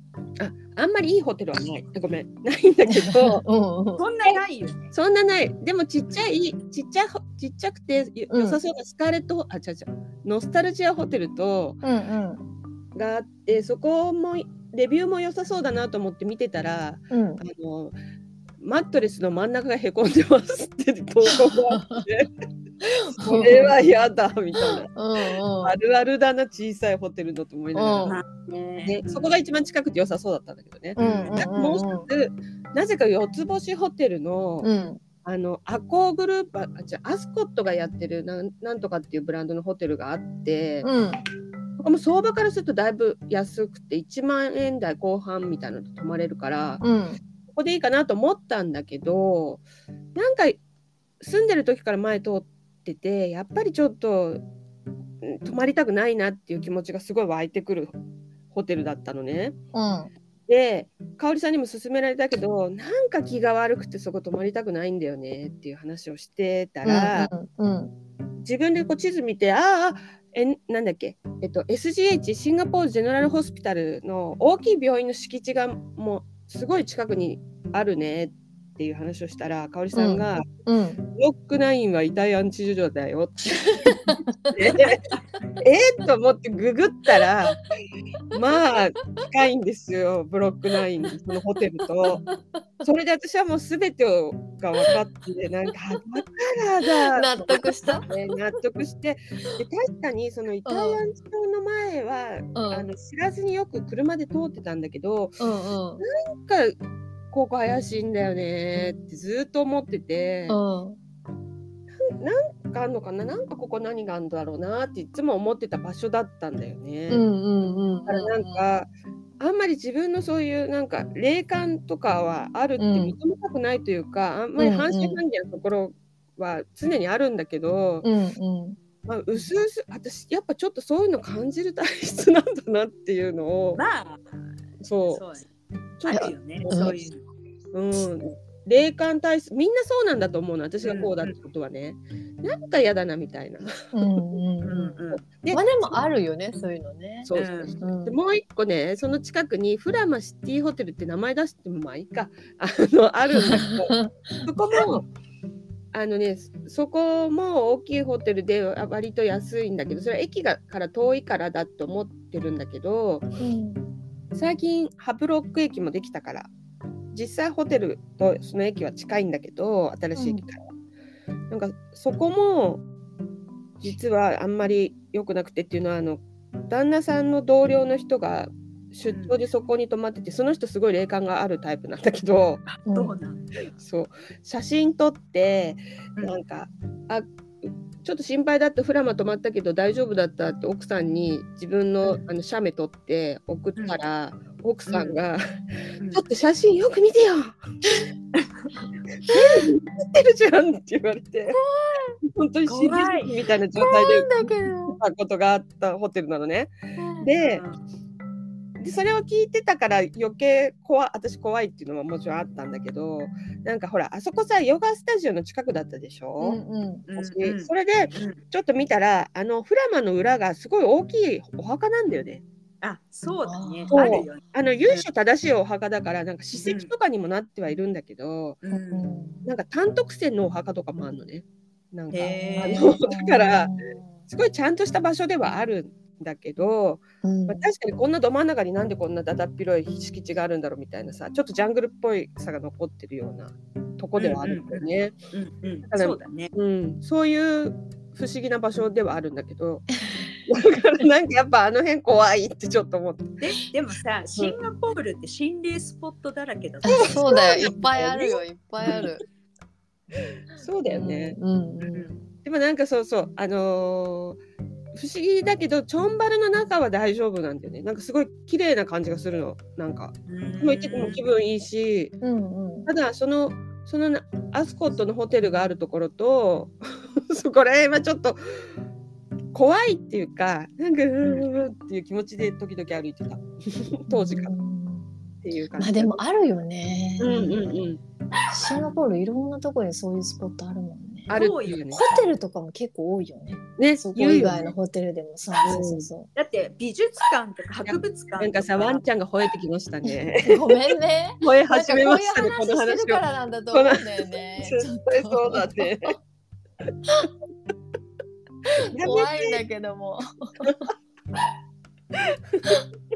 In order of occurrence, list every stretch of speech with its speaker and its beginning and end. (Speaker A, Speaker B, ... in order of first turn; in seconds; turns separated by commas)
Speaker A: 0.4-3.4, Speaker B: 2.9-4.0, Speaker C: 4.0-4.9, Speaker A: 4.9-11.8, Speaker B: 8.3-8.6, Speaker B: 11.8-12.4, Speaker A: 12.9-17.9, Speaker B: 17.1-17.4, Speaker A: 18.6-22.3, Speaker B: 21.3-22.0, Speaker B: 22.8-23.8, Speaker A: 23.1-28.2, Speaker B: 24.6-25.8, Speaker B: 27.7-28.2, Speaker C: 28.0-29.3, Speaker A: 28.8-34.7, Speaker C: 31.0-31.5, Speaker B: 31.0-32.1, Speaker B: 34.6-35.0, Speaker A: 35.2-40.9, Speaker B: 40.8-41.2, Speaker A: 41.8-46.8, Speaker B: 46.8-47.2, Speaker A: 47.5-49.6, Speaker A: 50.1-50.6, Speaker A: 51.2-54.4, Speaker A: 55.2-57.9, Speaker A: 58.5-59.5, Speaker B: 59.7-60.1, Speaker A: 60.5-67.3, Speaker B: 66.8-67.9, Speaker A: 68.4-80.5, Speaker B: 79.9-81.0, Speaker A: 81.1-85.0, Speaker B: 83.8-84.6, Speaker A: 85.6-87.6, Speaker A: 88.3-92.2, Speaker B: 92.0-92.6, Speaker A: 92.8-105.4, Speaker B: 96.8-98.1, Speaker B: 100.7-101.0, Speaker B: 102.5-102.9, Speaker B: 105.4-106.0, Speaker A: 106.0-106.7, Speaker A: 107.3-110.6, Speaker B: 110.5-111.0, Speaker A: 112.0-117.2, Speaker B: 117.1-118.6, Speaker A: 118.0-118.9, Speaker A: 119.4-128.1, Speaker B: 122.8-123.2, Speaker B: 124.6-125.2, Speaker B: 128.0-128.8, Speaker A: 129.0-133.8, Speaker C: 133.7-134.3, Speaker A: 134.8-135.2, Speaker C: 135.1-135.5, Speaker A: 136.0-137.0, Speaker C: 136.0-137.2, Speaker B: 136.1-137.0, Speaker A: 137.7-143.8, Speaker C: 140.8-141.3, Speaker B: 143.9-145.0, Speaker C: 144.6-145.2, Speaker A: 145.2-145.9, Speaker B: 145.5-148.2, Speaker A: 147.2-155.1, Speaker C: 147.3-147.8, Speaker B: 153.3-154.9, Speaker A: 155.9-163.2, Speaker B: 163.4-163.8, Speaker A: 164.3-166.5, Speaker A: 167.1-170.6, Speaker B: 170.1-170.4, Speaker A: 171.5-172.8, Speaker A: 173.8-182.7, Speaker C: 179.1-179.4, Speaker C: 182.7-183.7, Speaker B: 182.8-183.1, Speaker A: 183.8-195.4, Speaker C: 194.9-195.2, Speaker A: 196.1-197.6, Speaker C: 198.3-198.7, Speaker A: 199.2-201.6, Speaker B: 201.5-202.2, Speaker A: 202.2-207.6, Speaker C: 202.7-203.3, Speaker B: 203.8-205.0, Speaker B: 207.0-207.3, Speaker C: 207.3-207.8, Speaker A: 208.8-216.6, Speaker B: 216.4-217.1, Speaker C: 217.1-218.4, Speaker A: 217.2-222.4, Speaker C: 222.8-225.1, Speaker B: 223.4-224.0, Speaker A: 223.9-228.6, Speaker C: 226.6-226.9, Speaker C: 228.6-229.1, Speaker B: 228.7-229.5, Speaker A: 229.4-233.7, Speaker C: 232.1-233.0, Speaker B: 232.3-234.2, Speaker A: 234.3-245.1, Speaker B: 237.2-237.6, Speaker C: 244.2-246.5, Speaker A: 245.9-253.4, Speaker C: 253.4-257.6, Speaker B: 256.8-259.2, Speaker A: 256.9-259.1, Speaker A: 260.5-261.4, Speaker B: 260.9-262.2, Speaker A: 262.4-264.4, Speaker A: 264.9-272.2, Speaker C: 270.3-271.2, Speaker B: 272.2-272.9, Speaker A: 272.9-278.6, Speaker A: 279.5-284.5, Speaker C: 281.2-281.5, Speaker B: 284.1-287.9, Speaker A: 285.4-286.2, Speaker A: 287.2-288.0, Speaker B: 288.5-296.3, Speaker C: 291.3-291.8, Speaker A: 291.3-292.1, Speaker A: 293.8-294.7, Speaker A: 295.6-296.1, Speaker C: 296.3-299.0, Speaker A: 297.8-300.8, Speaker B: 300.1-306.1, Speaker A: 301.4-306.2, Speaker B: 308.8-310.9, Speaker A: 308.9-309.6, Speaker A: 312.5-312.8